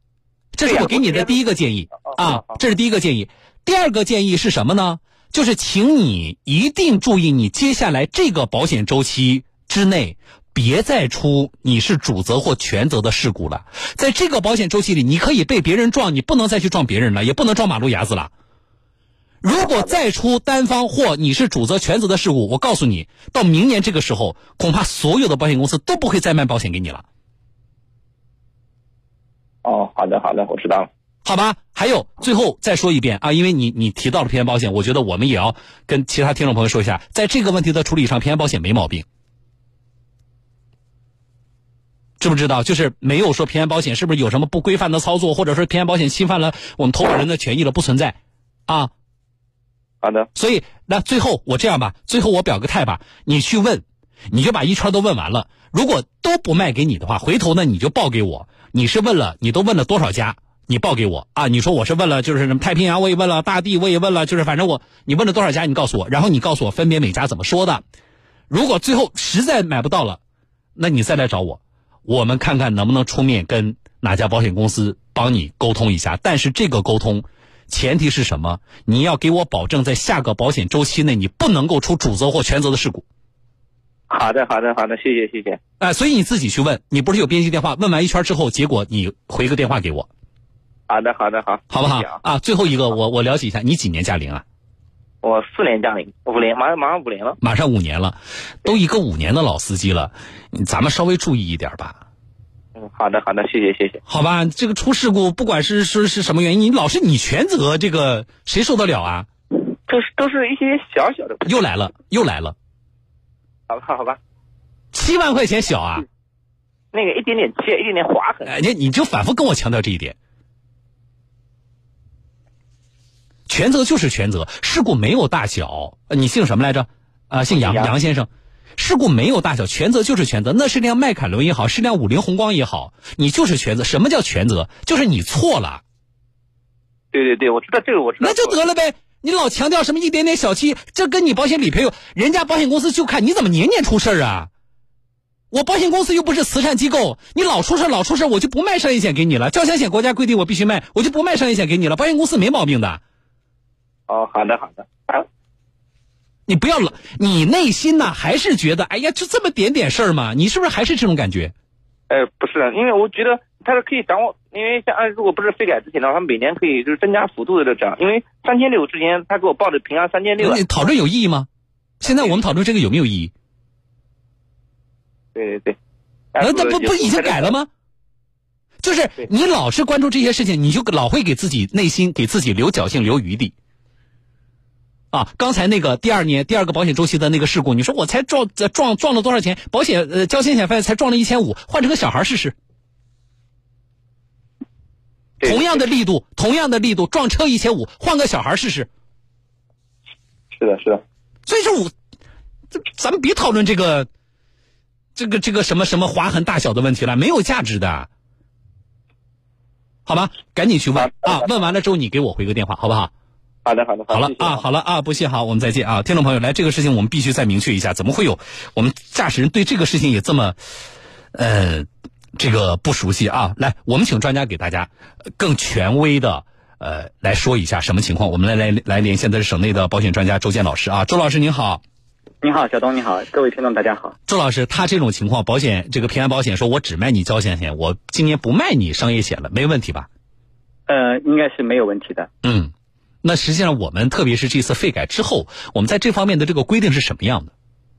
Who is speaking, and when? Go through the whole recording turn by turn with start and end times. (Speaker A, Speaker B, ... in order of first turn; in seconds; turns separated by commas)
Speaker A: 0.6-18.3, Speaker B: 0.7-1.4, Speaker B: 2.0-2.6, Speaker A: 19.4-27.0, Speaker B: 19.6-19.9, Speaker B: 29.6-30.9, Speaker A: 31.2-39.1, Speaker A: 42.2-48.9, Speaker B: 50.0-50.3, Speaker A: 50.4-67.8, Speaker A: 68.5-70.2, Speaker A: 70.8-83.0, Speaker B: 84.1-85.6, Speaker A: 85.8-90.1, Speaker B: 90.9-92.2, Speaker A: 91.7-94.4, Speaker B: 95.2-97.4, Speaker A: 97.4-102.0, Speaker B: 102.8-104.0, Speaker A: 104.1-109.3, Speaker B: 109.5-111.7, Speaker A: 111.4-112.5, Speaker B: 113.7-114.2, Speaker A: 114.9-116.1, Speaker B: 116.9-118.5, Speaker A: 118.5-120.2, Speaker A: 123.5-135.8, Speaker B: 127.5-127.9, Speaker B: 137.1-138.6, Speaker A: 138.2-144.5, Speaker A: 145.5-153.0, Speaker B: 154.1-155.3, Speaker A: 156.5-161.5, Speaker B: 162.1-170.8, Speaker A: 170.4-171.5, Speaker A: 172.0-173.3, Speaker B: 172.1-172.4, Speaker B: 175.3-175.8, Speaker B: 176.3-177.5, Speaker A: 176.4-177.7, Speaker A: 178.8-183.5, Speaker A: 185.1-192.6, Speaker B: 195.4-195.8, Speaker A: 195.4-198.9, Speaker B: 200.6-201.0, Speaker A: 201.5-201.9, Speaker A: 202.8-204.1, Speaker A: 205.2-208.1, Speaker A: 210.1-213.1, Speaker B: 211.0-211.5, Speaker B: 213.7-214.6, Speaker A: 214.1-220.6, Speaker A: 221.3-231.8, Speaker C: 232.4-234.2, Speaker A: 234.3-240.1, Speaker C: 240.9-242.3, Speaker A: 242.4-242.7, Speaker A: 243.2-247.5